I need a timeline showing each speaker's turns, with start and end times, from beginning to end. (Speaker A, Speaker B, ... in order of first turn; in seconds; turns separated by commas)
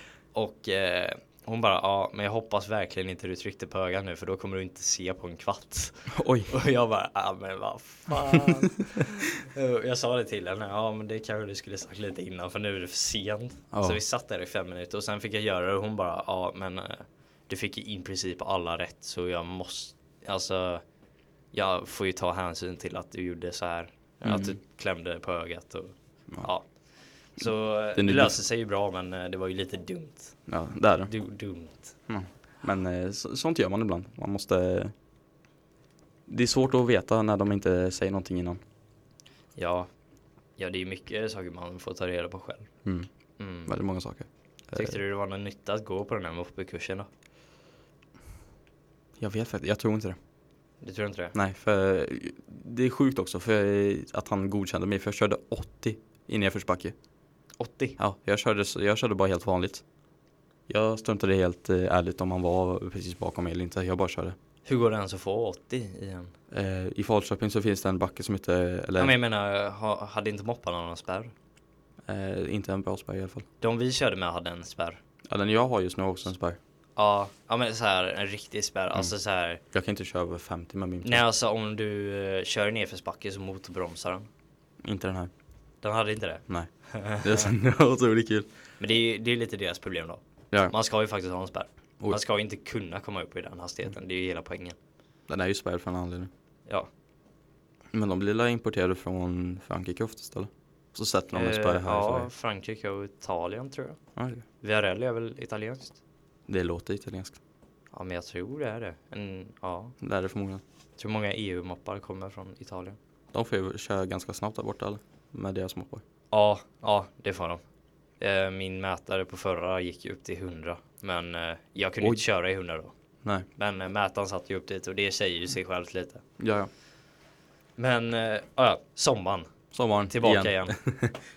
Speaker A: 0.3-20.8, Speaker B: 6.1-6.5, Speaker B: 13.7-14.0, Speaker A: 21.5-26.7, Speaker B: 24.2-24.6, Speaker A: 27.4-30.4, Speaker B: 27.4-28.4, Speaker B: 30.5-31.1, Speaker A: 31.1-31.9, Speaker B: 32.1-34.9, Speaker B: 36.3-38.6, Speaker A: 39.6-39.9, Speaker A: 40.6-42.7, Speaker A: 43.4-43.7, Speaker B: 43.6-45.0, Speaker A: 44.7-47.1, Speaker B: 49.2-50.2, Speaker A: 50.8-51.3, Speaker B: 51.3-56.9, Speaker A: 57.6-58.0, Speaker B: 58.0-59.8, Speaker B: 60.7-64.4, Speaker A: 64.6-66.3, Speaker B: 66.5-69.1, Speaker A: 69.0-71.3, Speaker B: 72.1-73.5, Speaker A: 73.6-75.0, Speaker B: 75.3-76.6, Speaker A: 77.0-79.6, Speaker B: 79.7-81.2, Speaker A: 81.0-84.3, Speaker B: 84.8-85.3, Speaker A: 85.8-87.5, Speaker B: 86.5-88.5, Speaker A: 88.8-94.8, Speaker B: 95.3-96.3, Speaker B: 97.9-102.3, Speaker A: 101.3-104.0, Speaker B: 104.2-104.4, Speaker A: 104.6-106.0, Speaker B: 106.5-107.4, Speaker A: 107.9-110.0, Speaker B: 110.0-110.6, Speaker A: 111.0-113.0, Speaker B: 113.3-116.0, Speaker A: 116.3-117.6, Speaker A: 118.2-122.9, Speaker A: 123.5-126.2, Speaker B: 126.4-126.7, Speaker A: 127.8-129.5, Speaker B: 129.7-131.2, Speaker A: 130.1-130.8